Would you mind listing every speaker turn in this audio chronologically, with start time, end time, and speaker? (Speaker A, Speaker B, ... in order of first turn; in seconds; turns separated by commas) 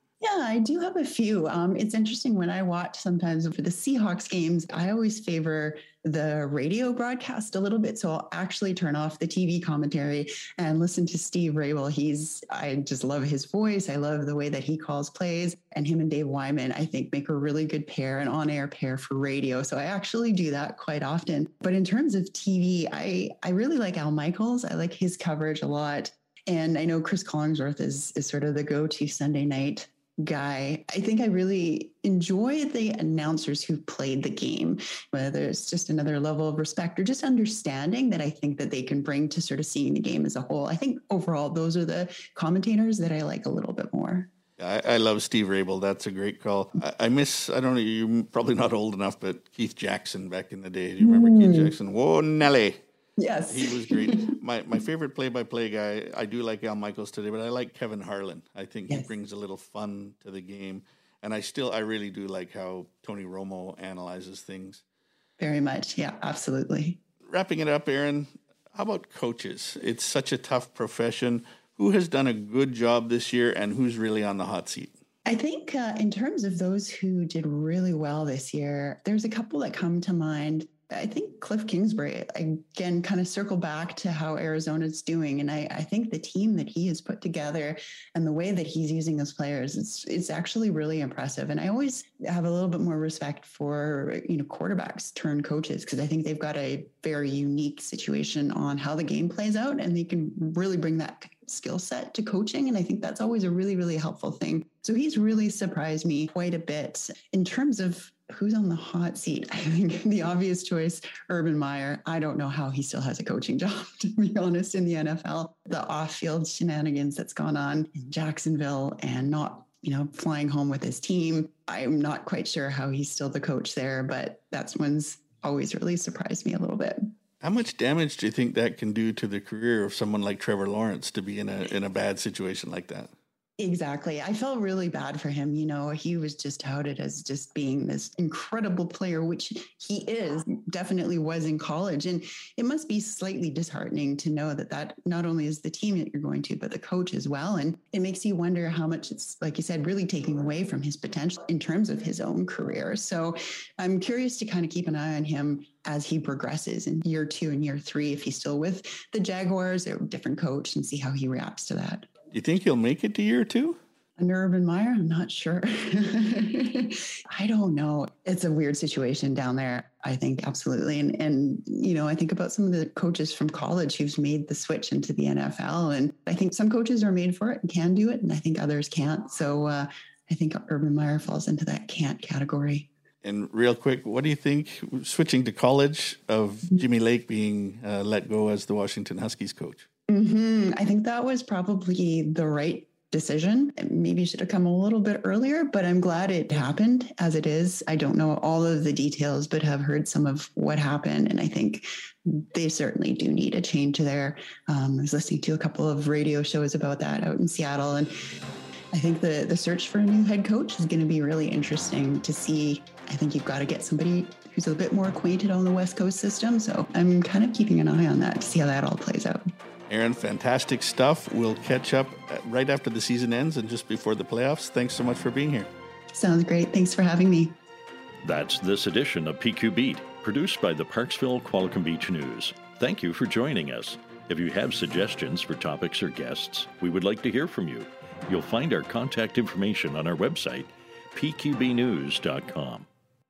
Speaker A: 0.2-44.3, Speaker B: 44.6-52.8, Speaker A: 51.0-51.7, Speaker A: 53.2-54.4, Speaker B: 53.5-64.8, Speaker A: 65.4-67.0, Speaker B: 67.3-74.9, Speaker A: 75.3-127.1, Speaker B: 127.4-133.1, Speaker A: 133.6-162.1, Speaker B: 162.3-163.8, Speaker A: 164.2-182.9, Speaker B: 183.2-189.9, Speaker A: 190.1-208.1, Speaker A: 208.9-219.4, Speaker B: 219.9-225.7, Speaker A: 226.1-227.6, Speaker C: 228.2-242.9